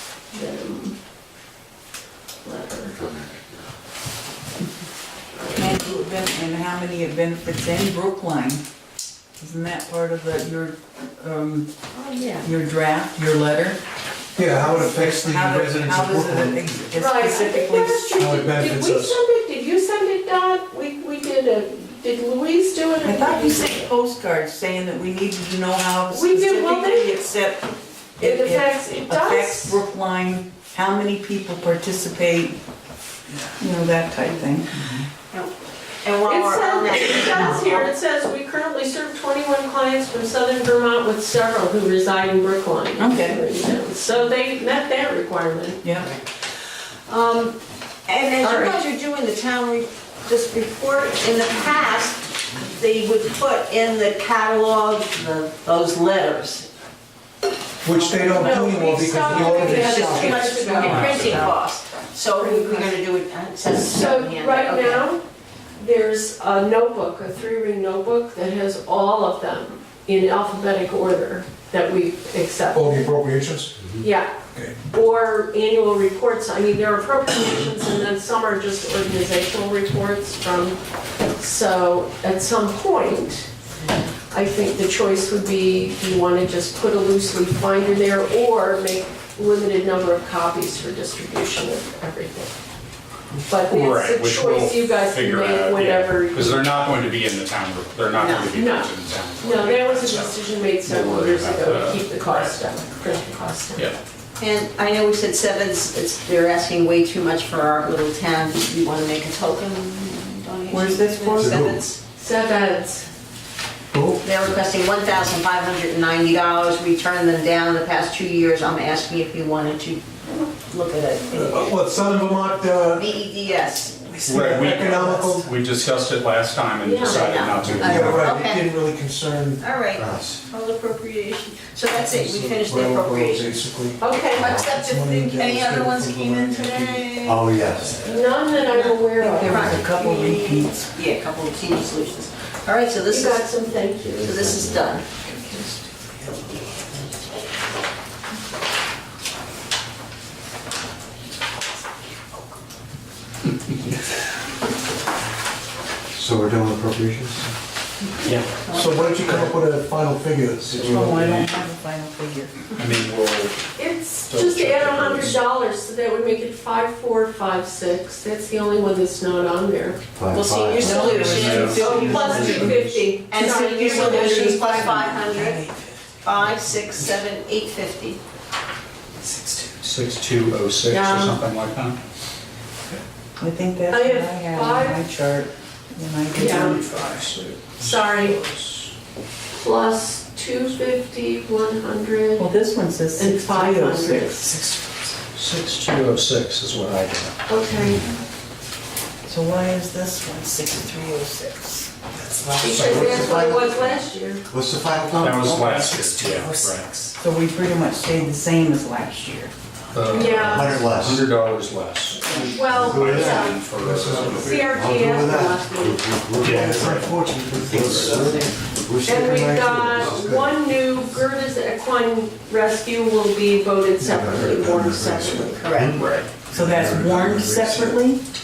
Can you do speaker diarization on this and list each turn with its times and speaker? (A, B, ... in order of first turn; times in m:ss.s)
0:00.3-0:01.0 A
0:02.4-0:03.0 A
0:03.0-0:03.6 B
0:05.6-0:08.6 C
0:09.4-0:11.7 C
0:12.0-0:12.5 D
0:12.4-0:13.8 C
0:14.4-0:16.7 E
0:14.4-0:18.3 C
0:16.9-0:23.9 A
0:18.2-0:19.2 E
0:23.0-0:32.6 C
0:26.1-0:27.1 A
0:28.2-0:29.8 A
0:33.3-0:35.1 C
0:36.0-0:37.9 D
0:36.2-0:45.9 A
0:43.0-0:43.5 C
0:45.8-0:46.1 C
0:47.1-0:47.6 D
0:48.1-0:56.7 D
0:48.3-0:48.9 A
0:57.8-1:00.4 E
0:58.1-1:01.4 A
0:59.3-1:05.1 D
1:00.8-1:01.5 F
1:01.2-1:01.5 E
1:02.3-1:03.0 A
1:03.9-1:05.2 A
1:05.8-1:13.1 A
1:12.7-1:13.8 E
1:14.0-1:20.8 A
1:14.5-1:14.8 E
1:21.4-1:23.5 A
1:24.3-1:32.5 A
1:33.5-1:36.8 A
1:33.7-1:42.6 F
1:38.1-1:38.5 D
1:38.5-1:43.9 A
1:44.4-1:52.0 D
1:50.7-1:51.7 C
1:51.4-1:51.8 E
1:52.1-1:53.1 A
1:53.9-1:54.3 E
1:54.2-2:01.8 D
2:01.3-2:03.1 E
2:03.0-2:04.2 D
2:04.1-2:05.4 C
2:04.2-2:08.3 F
2:04.3-2:05.5 E
2:06.8-2:07.3 A
2:07.0-2:08.7 D
2:07.8-2:09.6 E
2:09.6-2:13.7 D
2:10.0-2:10.3 B
2:12.1-2:14.0 E
2:14.0-2:14.5 A
2:14.2-2:17.5 D
2:14.3-2:14.8 B
2:14.7-2:17.1 E
2:17.2-2:18.0 B
2:18.0-2:19.8 A
2:18.5-2:23.4 D
2:19.2-2:20.9 C
2:23.1-2:25.7 A
2:24.2-2:25.0 D
2:24.2-2:24.6 B
2:36.1-2:37.5 B
2:38.2-2:38.6 F
2:38.7-2:41.2 E
2:40.7-2:42.7 C
2:40.8-2:41.5 F
2:42.8-2:43.6 F
2:43.8-2:55.0 A
2:44.2-2:45.4 F
2:50.1-2:51.4 B
2:50.3-2:55.7 D
2:51.0-2:52.8 F
2:51.8-2:52.6 C
2:53.9-2:56.6 C
2:56.2-2:58.2 D
2:59.2-2:59.7 C
2:59.8-3:02.0 F
3:00.9-3:01.4 A
3:03.4-3:07.0 C
3:03.9-3:05.0 A
3:06.3-3:06.8 A
3:06.6-3:08.9 F
3:07.8-3:08.4 A
3:09.5-3:12.5 A
3:12.4-3:15.1 C
3:13.1-3:14.6 A
3:15.3-3:17.3 F
3:17.5-3:18.0 A
3:19.2-3:23.3 C
3:22.6-3:24.4 A
3:22.7-3:25.7 B
3:25.2-3:26.9 F
3:25.3-3:29.5 C
3:29.9-3:34.7 F
3:30.1-3:30.8 A
3:30.2-3:31.2 B
3:32.2-3:33.6 A
3:32.7-3:40.6 B
3:34.2-3:37.0 A
3:36.4-3:38.4 F
3:39.0-3:46.3 A
3:44.0-3:48.0 B
3:45.6-3:46.0 D
3:46.5-3:48.2 C